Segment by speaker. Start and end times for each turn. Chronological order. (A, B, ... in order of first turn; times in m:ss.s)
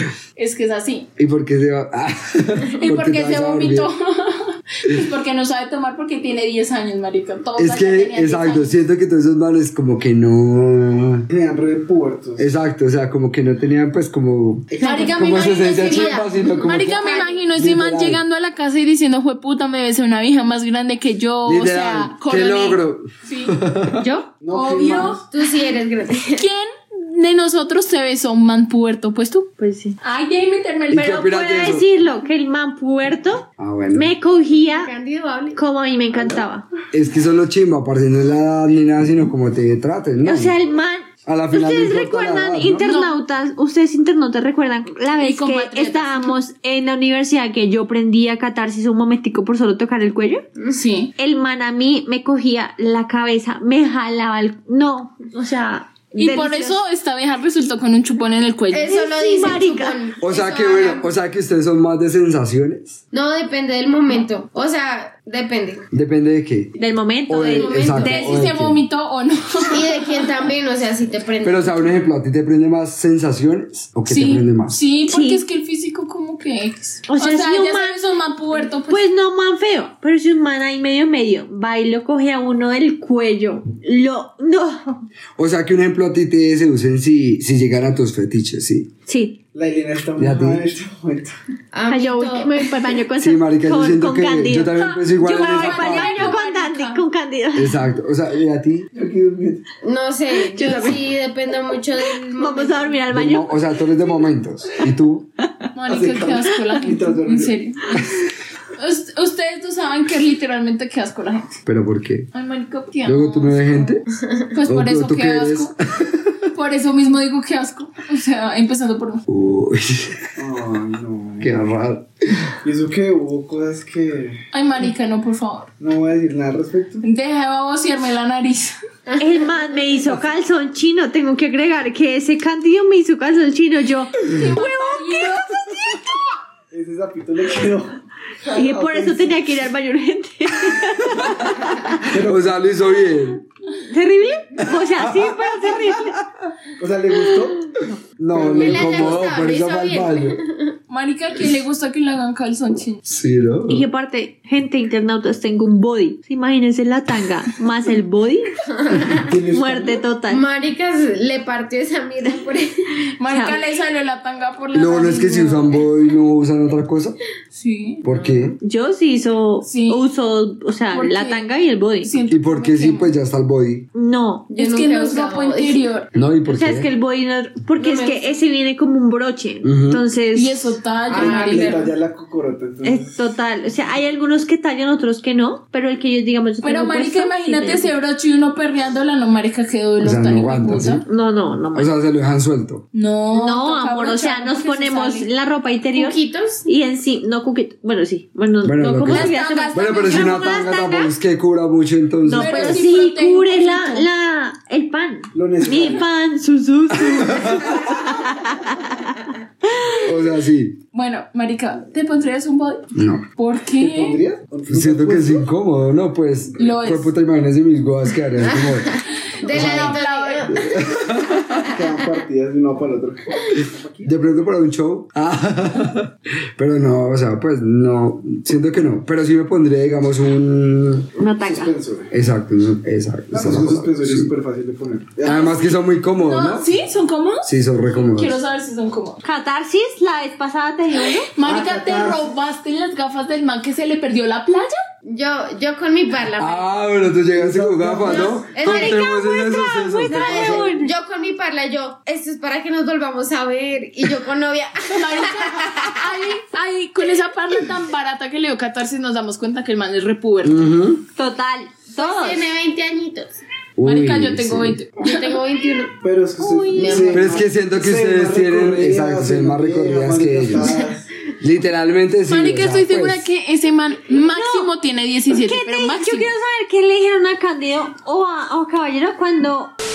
0:00.4-0:01.1 A
0:01.2-0:03.9 B
0:02.8-0:08.8 A
0:07.6-0:11.3 B
0:11.3-0:12.5 C
0:12.4-0:18.2 B
0:14.7-0:15.4 C
0:14.8-0:16.3 D
0:14.8-0:23.5 A
0:17.1-0:17.3 D
0:21.5-0:24.0 B
0:24.0-0:24.3 E
0:24.4-0:25.2 C
0:24.5-0:25.2 A
0:25.3-0:26.5 D
0:26.4-0:29.5 A
0:29.6-0:30.0 E
0:30.0-0:31.3 A
0:30.9-0:31.8 B
0:31.2-0:34.9 E
0:33.6-0:34.1 B
0:34.6-0:35.6 D
0:35.5-0:36.7 E
0:36.9-0:40.6 B
0:40.2-0:50.5 E
0:41.3-0:42.9 B
0:42.8-0:43.2 A
0:45.2-0:46.4 A
0:50.7-0:51.1 A
0:51.2-0:56.8 E
0:56.1-0:59.0 A
0:58.7-1:01.1 D
0:58.9-1:00.0 E
1:00.2-1:03.0 B
1:03.1-1:05.8 D
1:05.9-1:06.7 B
1:06.8-1:08.1 E
1:07.3-1:08.8 B
1:07.5-1:08.4 D
1:08.0-1:10.1 A
1:09.7-1:12.0 D
1:11.4-1:14.8 B
1:14.1-1:19.0 A
1:15.1-1:15.4 E
1:17.1-1:18.0 E
1:18.9-1:25.0 E
1:25.4-1:28.9 B
1:29.1-1:29.4 E
1:29.5-1:31.3 C
1:30.2-1:30.6 B
1:31.7-1:32.7 D
1:31.9-1:37.8 E
1:33.2-1:36.4 B
1:35.2-1:37.0 A
1:37.6-1:38.9 B
1:38.9-1:39.6 C
1:39.8-1:43.0 D
1:40.5-1:41.0 E
1:42.3-1:43.8 E
1:43.1-1:45.3 B
1:45.7-1:48.0 A
1:45.9-1:47.6 C
1:48.8-1:51.6 A
1:51.7-1:52.3 B
1:52.3-1:54.0 A
1:53.0-1:54.0 B
1:54.2-1:54.5 D
1:54.5-1:55.7 A
1:54.7-1:56.5 B
1:56.5-1:59.2 A
1:59.3-2:00.2 B
2:00.4-2:01.7 C
2:01.4-2:02.5 B
2:02.6-2:04.4 C
2:04.5-2:05.7 A
2:05.8-2:07.0 C
2:07.0-2:08.8 A
2:09.1-2:09.5 D
2:09.2-2:16.1 E
2:14.2-2:15.7 A
2:16.7-2:19.4 C
2:18.5-2:21.9 E
2:21.5-2:23.4 B
2:22.0-2:22.5 C
2:23.8-2:26.2 E
2:24.7-2:26.3 B
2:26.8-2:27.8 C
2:28.2-2:30.4 B
2:28.3-2:29.2 C
2:28.5-2:30.8 D
2:30.9-2:33.0 A
2:33.0-2:33.9 B
2:33.7-2:38.5 E
2:39.1-2:40.0 C
2:39.5-2:40.4 E
2:40.3-2:43.1 D
2:43.2-2:45.8 A
2:43.3-2:43.6 E
2:44.7-2:47.2 B
2:47.5-2:48.0 A
2:48.0-2:48.6 B
2:48.1-2:48.5 D
2:48.6-2:52.1 E
2:49.6-2:50.1 A
2:50.9-2:53.1 A
2:52.3-2:53.9 B
2:53.9-2:54.5 E
2:54.5-2:55.8 D
2:54.5-2:56.1 A
2:56.1-2:56.9 B
2:56.5-3:00.6 E
2:57.8-2:58.4 D
2:59.6-3:00.0 B
3:00.3-3:01.8 A
3:01.1-3:02.0 D
3:01.1-3:03.3 C
3:02.8-3:07.9 E
3:06.6-3:11.0 A
3:10.0-3:11.0 B
3:11.1-3:11.9 E
3:11.7-3:12.8 B
3:12.9-3:15.3 A
3:13.3-3:21.1 E
3:15.9-3:16.6 D
3:18.6-3:22.8 B
3:19.0-3:20.7 A
3:22.2-3:29.1 E
3:22.3-3:24.1 A
3:25.3-3:26.1 C
3:27.2-3:27.8 B
3:30.0-3:30.8 B
3:30.9-3:32.8 A
3:33.0-3:33.2 B
3:33.4-3:34.2 A
3:33.8-3:35.5 C
3:34.7-3:38.9 B
3:36.6-3:37.1 A
3:38.4-3:40.6 D
3:39.4-3:40.5 A
3:39.5-3:40.0 B
3:40.5-3:41.1 C
3:40.9-3:41.7 B
3:41.6-3:44.2 C
3:44.0-3:51.1 B
3:51.2-3:51.7 E
3:51.4-3:52.1 C
3:52.1-3:54.3 B
3:53.3-3:55.4 C
3:55.2-3:56.7 B
3:55.2-3:59.2 A
3:57.4-3:58.4 B
3:59.2-4:01.3 E
4:01.3-4:04.8 A
4:01.4-4:02.3 C
4:05.0-4:06.7 D
4:06.4-4:10.6 B
4:07.3-4:08.3 C
4:08.1-4:09.0 D
4:08.6-4:10.9 E
4:10.1-4:16.0 D
4:14.9-4:20.7 A
4:20.4-4:21.0 B
4:21.2-4:22.5 E
4:22.0-4:23.4 D
4:23.8-4:24.8 B
4:23.8-4:25.4 A
4:25.0-4:25.9 D
4:26.0-4:31.1 C
4:26.4-4:27.1 E
4:26.7-4:27.4 D
4:27.1-4:30.8 B
4:31.4-4:33.2 B
4:32.3-4:36.3 A
4:34.1-4:34.7 E
4:35.3-4:39.7 E